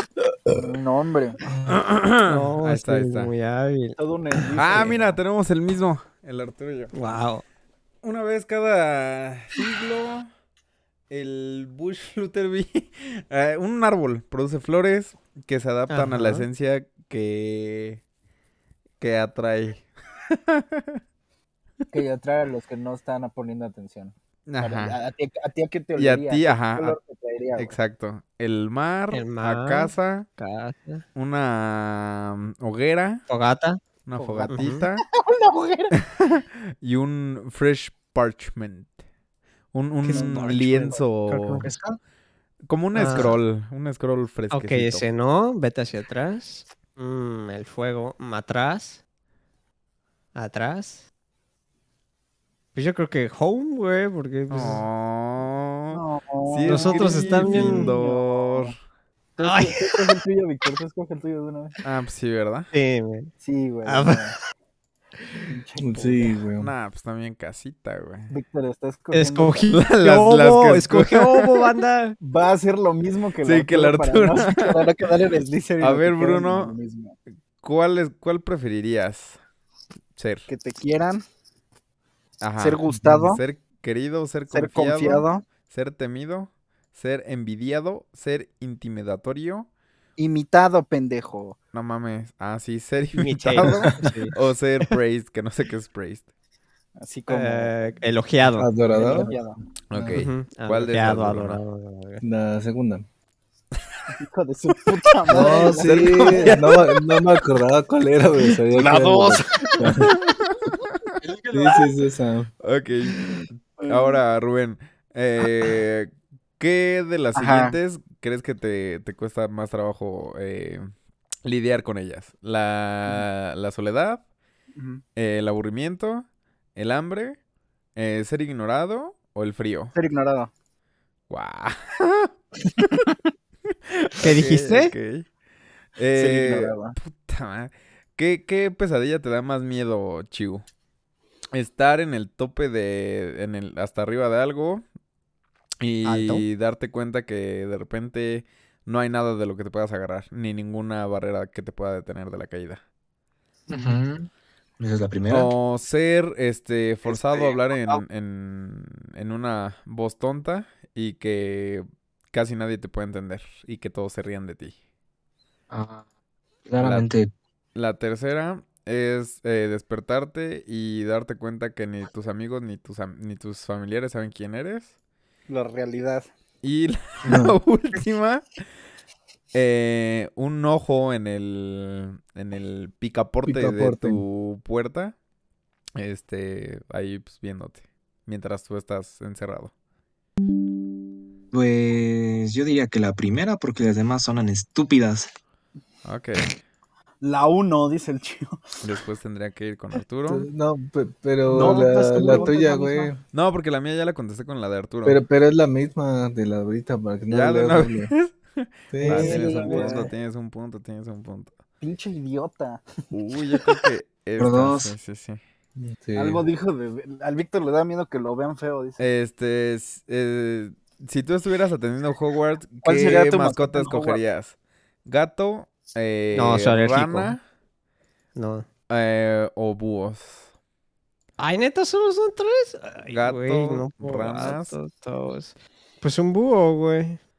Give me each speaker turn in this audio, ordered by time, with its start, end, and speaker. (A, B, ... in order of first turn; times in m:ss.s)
0:00.6-0:01.4 A
0:01.5-0:01.8 B
0:01.7-0:03.3 C
0:02.3-0:04.0 D
0:04.0-0:05.1 A
0:04.5-0:06.9 C
0:06.9-0:07.4 D
0:08.0-0:10.3 C
0:11.1-0:18.0 C
0:15.9-0:16.4 D
0:19.0-0:21.0 C
0:21.9-0:27.8 A
0:24.5-0:25.0 C
0:26.0-0:27.0 C
0:27.6-0:30.3 C
0:29.1-0:31.0 D
0:31.2-0:33.2 C
0:33.3-0:33.8 D
0:34.0-0:35.0 C
0:34.2-0:36.0 A
0:34.5-0:34.8 D
0:35.9-0:39.0 C
0:39.7-0:41.7 C
0:40.0-0:40.6 D
0:40.1-0:41.0 A
0:41.3-0:41.8 D
0:41.7-0:41.9 E
0:42.7-0:45.1 C
0:42.9-0:43.4 D
0:44.5-0:49.0 D
0:50.3-0:51.0 D
0:52.7-0:54.8 D
0:54.5-0:58.7 C
0:55.9-0:58.7 A
0:56.6-0:57.9 D
0:59.4-1:01.8 A
0:59.4-1:00.1 D
1:01.8-1:02.7 C
1:02.7-1:03.3 D
1:03.4-1:04.3 A
1:03.8-1:04.4 D
1:05.5-1:06.3 A
1:05.8-1:06.7 B
1:06.6-1:08.3 C
1:08.3-1:09.7 A
1:09.1-1:12.2 D
1:09.7-1:11.7 C
1:12.2-1:17.2 A
1:13.4-1:14.9 C
1:15.8-1:16.8 C
1:17.6-1:19.4 C
1:20.2-1:20.5 C
1:20.5-1:21.2 A
1:22.4-1:29.7 C
1:22.6-1:23.4 A
1:24.5-1:25.4 A
1:30.2-1:31.6 A
1:31.7-1:36.3 C
1:33.2-1:34.3 D
1:37.0-1:37.7 A
1:37.3-1:38.7 D
1:38.5-1:39.3 B
1:38.8-1:39.6 A
1:39.9-1:41.6 C
1:39.9-1:40.2 B
1:40.1-1:42.2 D
1:42.2-1:43.0 B
1:44.1-1:46.7 A
1:45.3-1:50.1 B
1:45.3-1:46.8 C
1:48.7-1:49.9 A
1:50.1-1:51.1 C
1:51.2-1:51.8 E
1:51.5-1:52.5 B
1:52.6-2:00.8 C
1:53.8-1:54.2 A
1:57.4-1:57.8 A
2:01.4-2:04.2 C
2:04.8-2:05.0 A
2:05.2-2:07.4 C
2:08.0-2:09.9 C
2:09.9-2:10.5 A
2:11.3-2:12.3 C
2:12.8-2:13.1 C
2:13.9-2:15.3 C
2:14.2-2:14.9 D
2:16.0-2:20.6 C
2:16.1-2:17.0 A
2:21.5-2:24.8 C
2:25.8-2:32.8 C
2:26.0-2:26.4 D
2:33.7-2:35.5 E
2:35.3-2:44.8 C
2:37.1-2:38.0 E
2:45.7-2:46.0 E
2:46.7-2:47.3 E
2:46.8-2:47.1 C
2:47.7-2:54.9 C
2:55.5-2:56.3 A
2:56.6-2:58.4 C
2:57.2-2:57.5 B
2:59.5-3:05.2 C
3:03.4-3:04.2 B
3:06.0-3:09.7 C
3:11.5-3:15.3 E
3:16.0-3:16.6 C
3:17.2-3:18.6 A
3:18.8-3:20.5 C
3:20.3-3:23.2 B
3:21.5-3:23.1 A
3:23.3-3:25.2 C
3:25.0-3:28.1 B
3:27.3-3:31.5 C
3:28.9-3:30.0 B
3:29.0-3:30.1 A
3:31.8-3:32.8 A
3:33.1-3:35.4 C
3:33.5-3:33.8 A
3:34.4-3:34.9 E
3:35.8-3:36.4 B
3:36.1-3:39.0 A
3:39.0-3:47.4 C
3:42.8-3:44.2 A
3:46.3-3:47.4 D
3:48.3-3:48.6 D
3:48.9-3:50.5 C
3:51.4-3:57.2 D
3:53.1-3:54.8 C